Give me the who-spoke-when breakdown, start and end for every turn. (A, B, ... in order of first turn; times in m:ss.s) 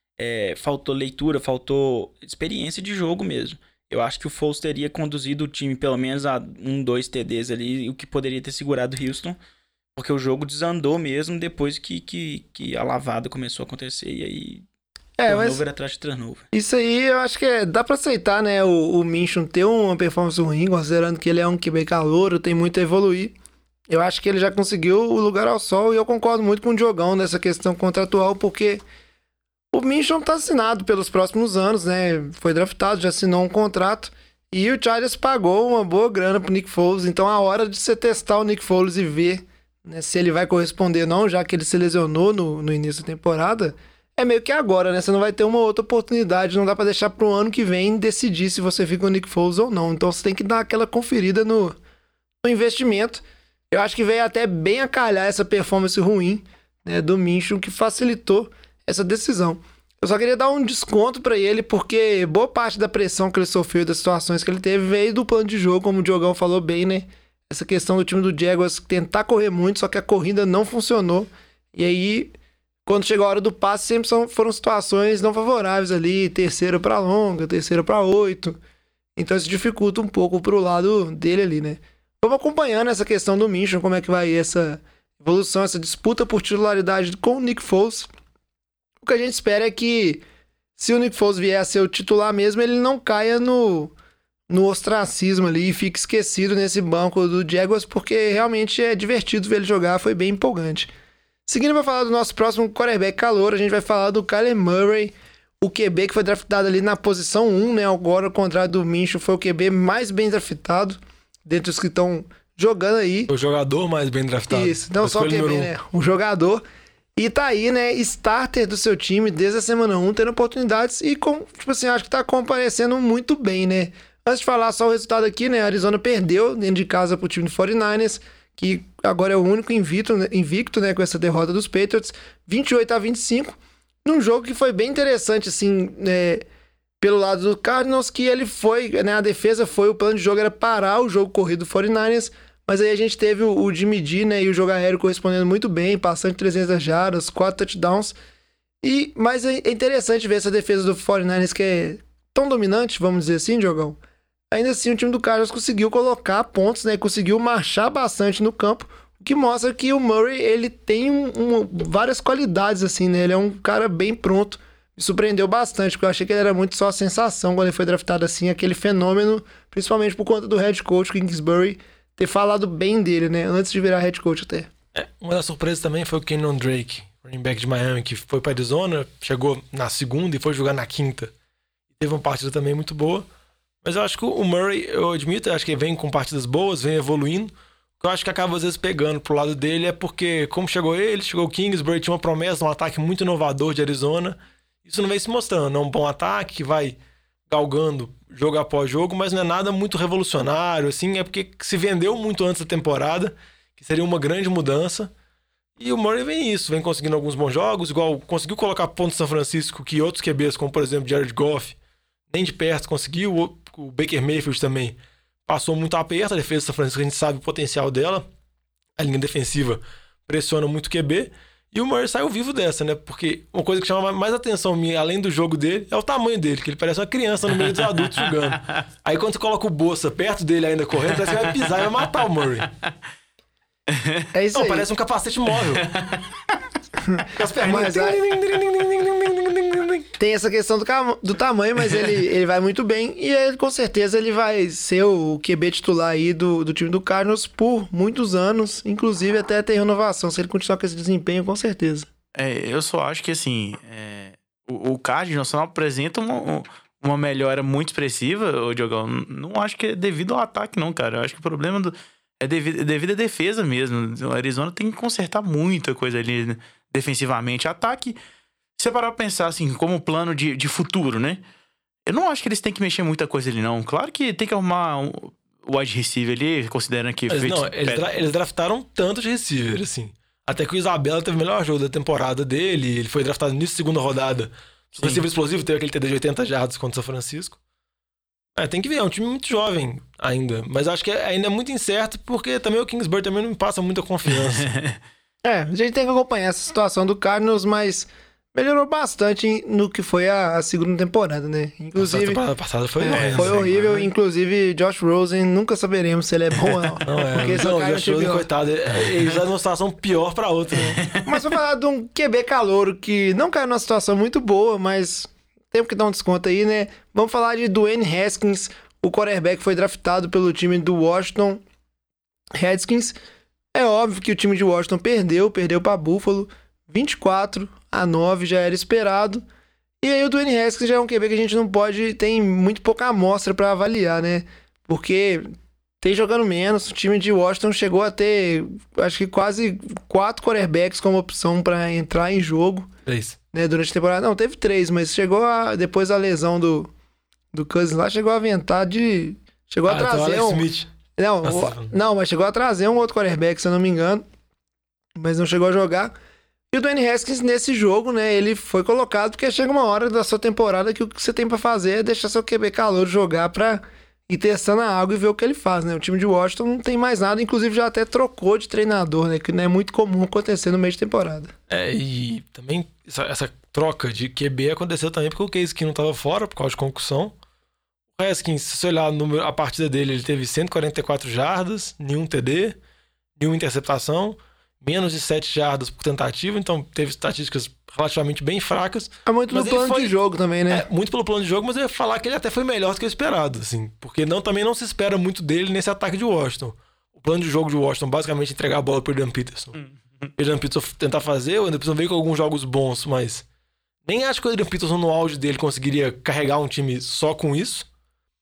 0:00.2-0:09.4 A
0:10.0-0:14.6 A
0:15.2-0:15.6 B
0:15.3-0:16.4 A
0:16.5-0:23.3 B
0:23.9-0:28.8 B
0:29.7-0:51.8 B
0:52.4-1:12.3 B
1:12.8-1:18.6 B
1:19.2-1:28.1 B
1:29.0-1:30.2 B
1:30.8-1:33.9 B
1:34.5-1:40.9 B
1:41.5-1:53.3 B
1:53.3-1:55.7 C
1:54.5-1:56.6 B
1:57.2-2:16.4 B
2:17.0-2:28.2 B
2:28.8-2:34.0 B
2:34.5-2:54.7 B
2:54.9-3:01.3 C
3:02.0-3:03.2 C
3:03.8-3:17.0 C
3:17.5-3:25.1 C
3:25.8-3:31.8 C
3:32.3-3:38.2 C
3:39.0-3:52.7 C
3:53.9-3:54.2 D
3:54.3-3:54.9 B
3:54.5-3:55.9 C
3:55.8-3:56.2 D
3:57.0-3:58.2 B
3:57.3-4:00.1 C
4:00.2-4:12.1 B
4:12.4-4:28.2 D
4:28.8-4:31.4 D
4:32.0-4:38.1 D
4:37.3-4:47.6 C
4:45.0-4:45.2 D
4:48.5-4:54.7 C
4:54.6-4:55.0 D
4:55.4-5:02.4 B
5:02.0-5:03.7 C
5:03.0-5:08.5 B
5:03.1-5:04.1 D
5:07.0-5:11.0 C
5:11.2-5:21.6 B
5:22.6-5:23.1 B
5:23.7-5:29.4 B
5:30.0-5:42.9 B
5:43.0-5:43.4 C
5:43.5-5:46.9 B
5:47.5-5:50.6 B
5:49.9-5:50.9 C
5:51.2-5:54.2 B
5:51.4-5:51.9 C
5:55.1-5:56.1 B
5:56.7-6:11.5 B
6:11.7-6:17.3 C
6:18.2-6:22.8 C
6:23.4-6:30.1 C
6:29.2-6:30.8 B
6:30.7-6:39.8 C
6:40.4-6:43.4 C
6:44.0-6:47.9 C